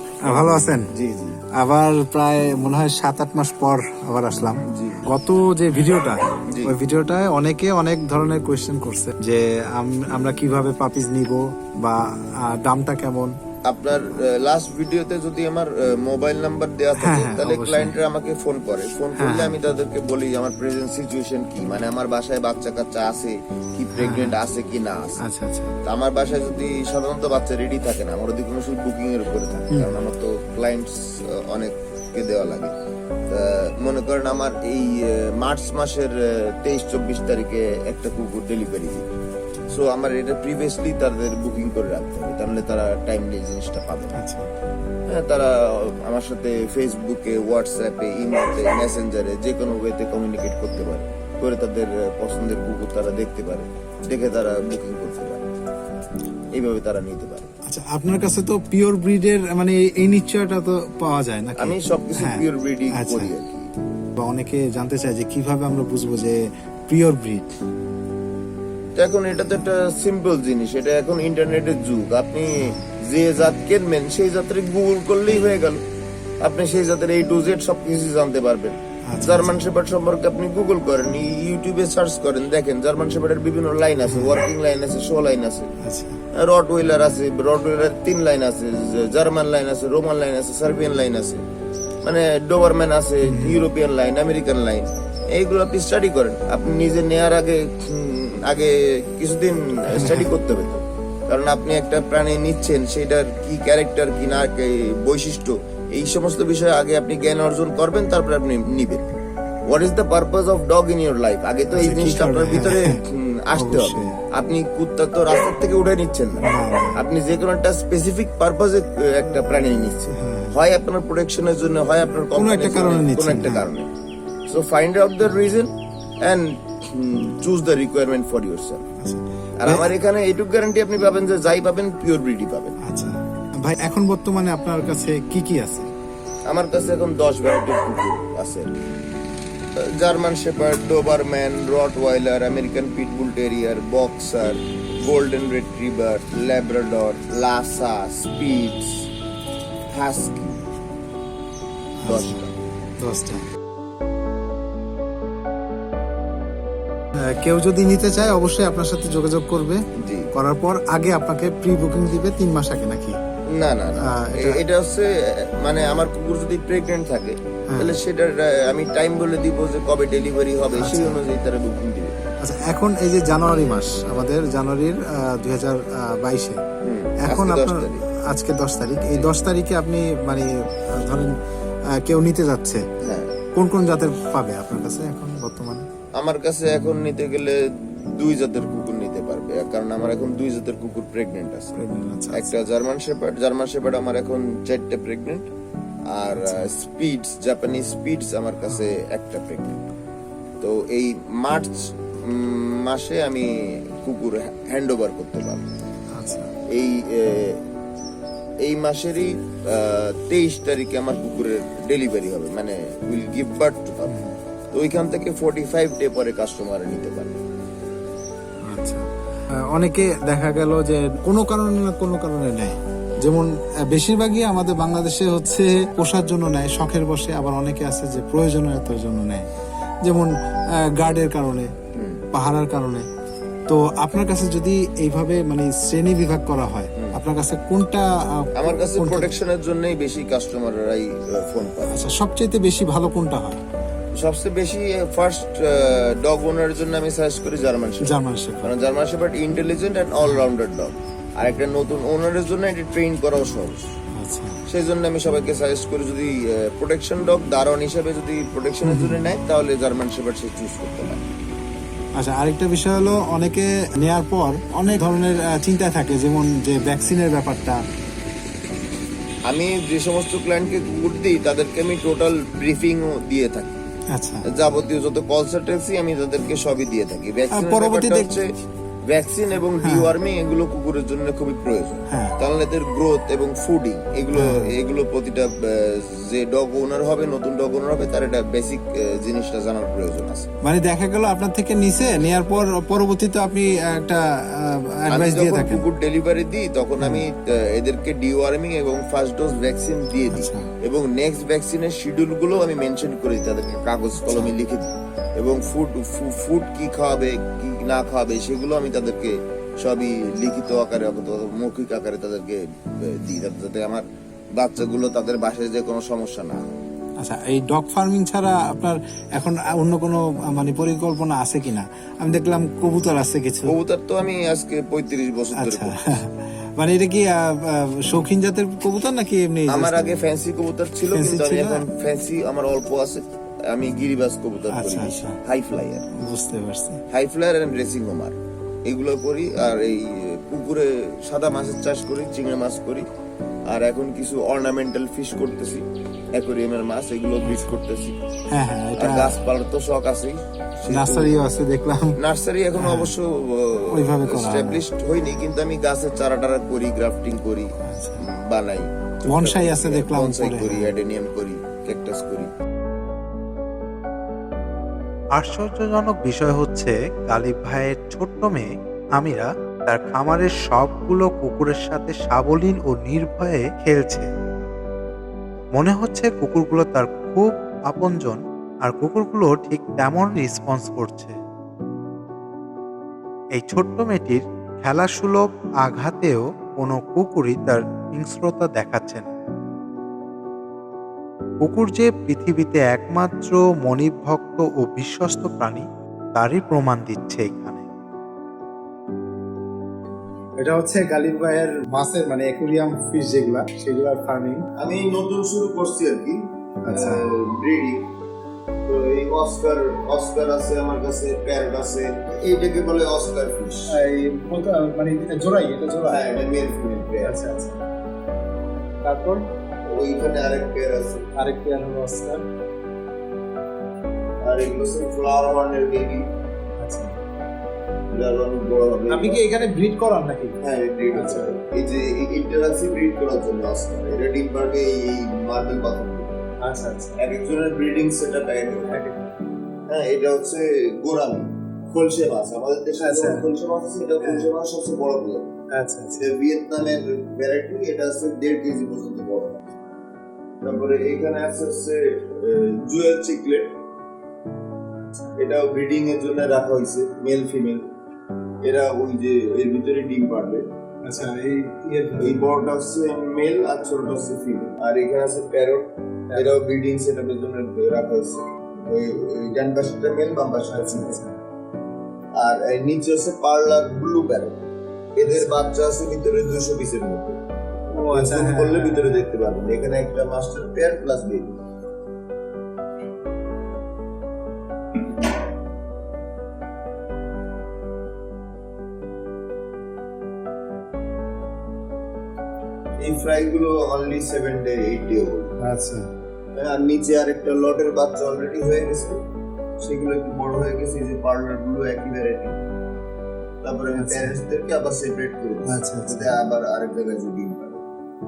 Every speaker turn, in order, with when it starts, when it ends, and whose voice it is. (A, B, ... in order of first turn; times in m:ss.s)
0:00.2-0:00.9 A
0:00.2-0:01.4 B
0:01.6-0:13.4 A
0:04.7-0:05.0 B
0:06.5-0:06.7 B
0:13.6-0:25.2 B
0:17.0-0:17.9 A
0:19.2-0:19.6 A
0:23.9-0:24.3 A
0:25.2-0:25.8 A
0:25.8-0:32.7 B
0:33.3-0:39.1 B
0:39.7-0:44.2 B
0:44.1-0:44.5 A
0:45.1-0:55.4 B
0:56.5-0:57.5 B
0:57.7-1:03.3 A
1:01.6-1:03.7 B
1:04.2-1:07.5 A
1:09.0-1:15.8 B
1:16.4-1:25.7 B
1:19.1-1:19.6 A
1:25.8-1:26.2 A
1:26.3-1:31.4 B
1:32.0-1:49.1 B
1:33.2-1:33.7 A
1:39.9-1:40.3 A
1:49.7-2:03.9 B
1:51.7-1:53.0 A
1:53.5-1:54.2 A
1:56.4-1:57.0 A
2:00.1-2:00.5 A
2:02.3-2:03.6 A
2:04.5-2:05.7 B
2:06.2-2:08.8 B
2:09.0-2:09.9 A
2:09.6-2:12.8 B
2:12.8-2:15.9 A
2:16.5-2:18.7 B
2:19.9-2:29.1 B
2:29.9-2:30.6 B
2:32.0-2:32.4 A
2:32.1-2:32.5 B
2:33.0-2:33.4 A
2:37.3-2:39.8 A
2:40.0-2:40.3 B
2:40.3-2:43.2 A
2:43.5-2:52.1 B
2:44.1-2:44.6 A
2:47.7-2:47.9 A
2:50.8-2:51.2 A
2:52.4-2:56.6 A
2:56.8-2:58.0 B
2:57.2-3:01.4 A
3:02.0-3:02.9 A
3:03.0-3:03.3 B
3:03.6-3:05.9 A
3:06.2-3:11.7 B
3:11.7-3:12.6 A
3:12.3-3:15.5 B
3:16.1-3:19.8 B
3:16.4-3:16.7 A
3:18.7-3:18.9 A
3:20.6-3:25.7 B
3:26.1-3:26.5 A
3:26.7-3:27.6 B
3:28.6-3:34.2 B
3:34.1-3:34.4 A
3:34.7-3:37.4 B
3:38.6-3:39.0 A
3:39.6-3:49.5 A
3:50.0-3:50.3 A
3:50.9-3:51.7 A
3:51.9-3:52.2 B
3:52.3-3:53.1 A
3:53.7-3:59.3 A
3:58.6-4:02.1 B
4:01.9-4:03.6 A
4:04.1-4:13.9 B
4:08.0-4:08.7 A
4:14.2-4:14.6 A
4:14.7-4:21.2 B
4:18.8-4:19.2 A
4:22.2-4:27.8 A
4:29.5-4:33.8 B
4:34.1-4:34.4 A
4:34.5-4:38.5 B
4:37.5-4:38.4 A
4:39.1-4:50.5 B
4:39.8-4:40.1 A
4:42.1-4:42.3 A
4:44.3-4:44.7 A
4:50.6-4:55.8 A
4:55.1-5:14.0 B
4:57.0-4:57.2 A
5:00.3-5:00.7 A
5:04.2-5:04.5 A
5:14.6-5:16.7 B
5:17.2-5:23.7 A
5:23.7-5:26.2 B
5:25.5-5:30.0 A
5:29.7-5:36.0 B
5:31.1-5:31.8 A
5:34.7-5:35.4 A
5:36.1-5:37.0 A
5:37.1-5:38.4 B
5:38.9-5:43.1 B
5:43.7-5:48.2 B
5:47.4-5:47.7 A
5:48.5-5:49.4 A
5:49.0-5:51.4 B
5:50.9-5:52.2 A
5:52.2-5:57.7 B
5:52.8-5:53.1 A
5:53.9-5:54.8 A
5:57.8-5:58.2 A
5:58.3-6:02.5 B
5:59.2-6:00.9 A
6:05.4-6:14.3 C
6:15.8-6:21.3 C
6:23.6-6:29.3 C
6:31.6-6:37.8 C
6:40.6-6:44.6 A
6:44.8-6:46.4 B
6:46.8-6:47.2 A
6:46.9-6:48.0 B
6:48.8-6:53.9 B
6:53.9-6:56.3 A
6:56.0-6:57.3 B
6:57.2-6:57.8 A
6:59.0-6:59.4 A
6:59.9-7:01.2 B
7:01.3-7:02.4 A
7:04.4-7:06.3 B
7:06.8-7:07.2 A
7:08.1-7:09.4 B
7:09.1-7:10.6 A
7:10.6-7:16.4 B
7:11.1-7:11.5 A
7:16.6-7:17.2 A
7:17.2-7:18.9 B
7:18.9-7:19.3 A
7:19.9-7:25.5 B
7:23.0-7:23.4 A
7:24.2-7:24.5 A
7:25.7-7:26.3 A
7:26.2-7:29.6 B
7:30.6-7:33.7 B
7:35.0-7:35.4 A
7:35.4-7:37.8 B
7:38.6-7:40.7 B
7:41.0-7:42.4 A
7:42.2-7:51.2 B
7:46.3-7:46.6 A
7:50.7-7:51.4 A
7:52.4-7:57.4 B
7:55.2-7:55.6 A
7:57.9-7:59.2 A
7:58.0-8:01.6 B
8:13.0-8:15.5 B
8:15.6-8:16.1 A
8:16.6-8:19.2 B
8:19.8-8:22.6 B
8:23.6-8:27.8 B
8:23.9-8:24.3 A
8:25.6-8:26.3 A